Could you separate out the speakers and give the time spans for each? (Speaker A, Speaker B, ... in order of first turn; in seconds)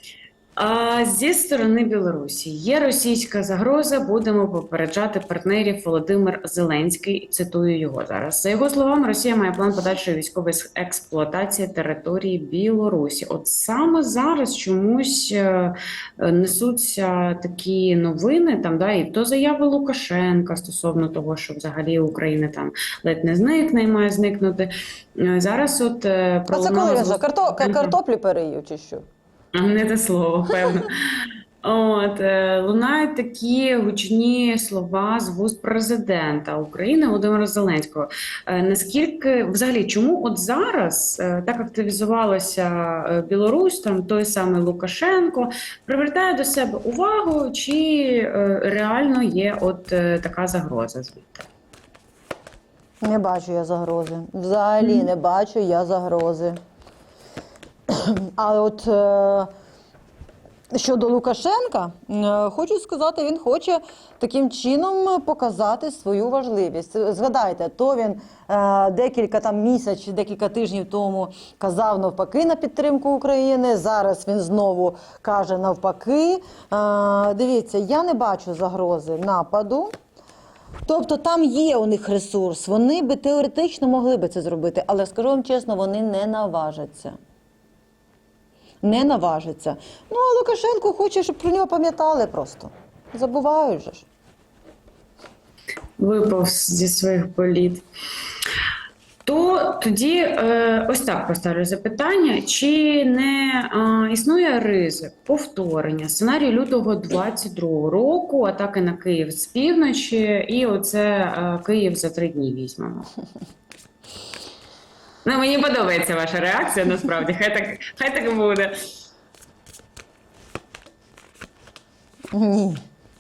Speaker A: 0.6-27.9, 29.5-51.4, 96.0-97.8, 99.2-113.1, 115.2-118.7
Speaker B: 26.5-29.1, 53.0-56.6, 57.9-59.5, 60.7-79.9, 80.8-87.2, 88.8-94.0, 122.3-122.8